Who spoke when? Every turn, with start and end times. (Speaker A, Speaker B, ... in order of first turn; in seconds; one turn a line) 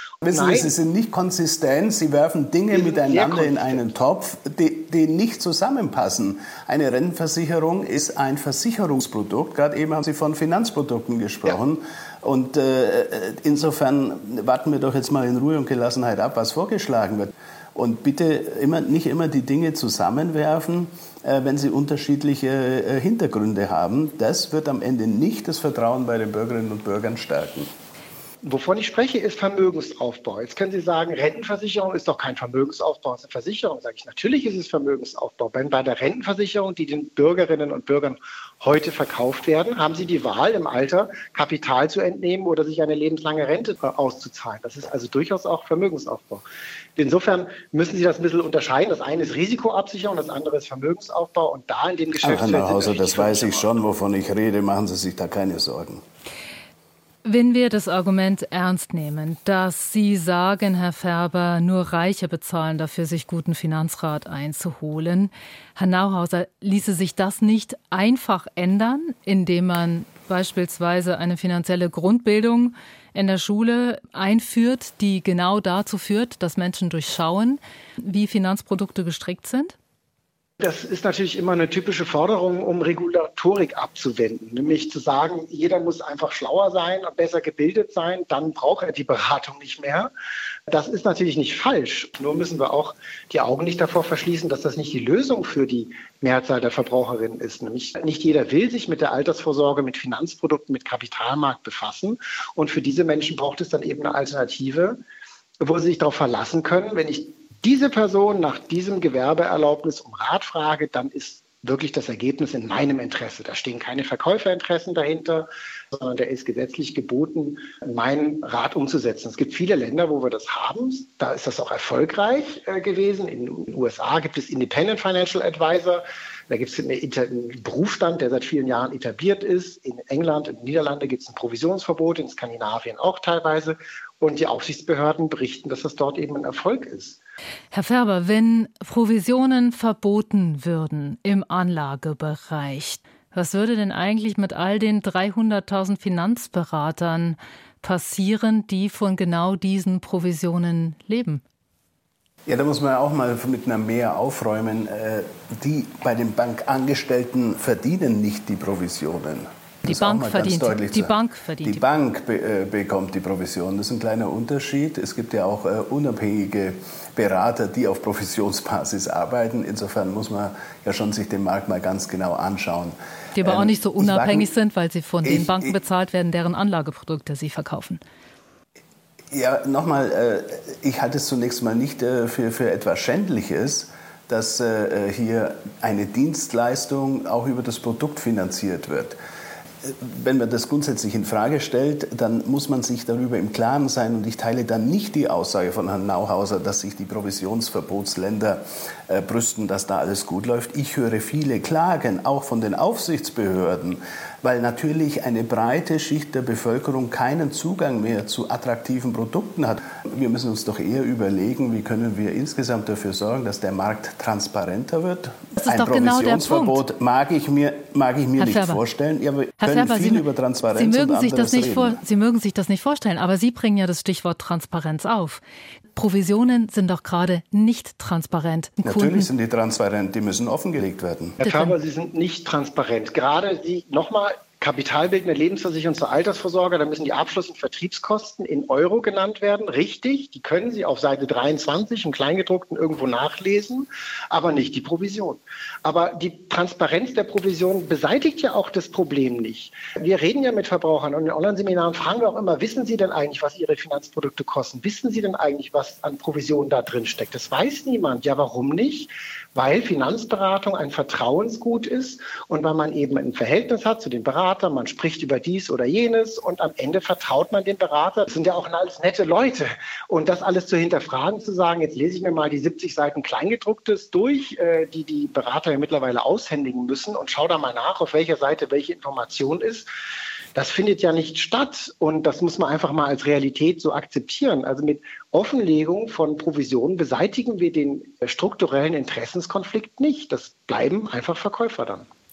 Speaker A: 0.2-27.7
Speaker B: 0.3-0.7
Speaker B: 2.7-3.8
Speaker B: 28.4-46.4
Speaker B: 47.0-53.8
Speaker A: 52.2-56.0
Speaker C: 57.2-79.7
Speaker B: 80.6-90.1
Speaker B: 90.7-105.0
Speaker B: 105.6-137.2
Speaker C: 137.7-151.4
Speaker A: 152.4-174.5
Speaker C: 159.8-161.8
Speaker C: 173.3-178.0
Speaker A: 175.2-175.7
Speaker A: 179.3-189.2
Speaker A: 189.8-222.0
Speaker C: 215.6-216.8
Speaker C: 218.4-218.8
Speaker C: 219.6-220.2
Speaker C: 220.7-225.4
Speaker C: 225.9-229.3
Speaker A: 228.8-231.4
Speaker B: 231.4-279.9
Speaker C: 231.4-231.7
Speaker B: 280.5-292.1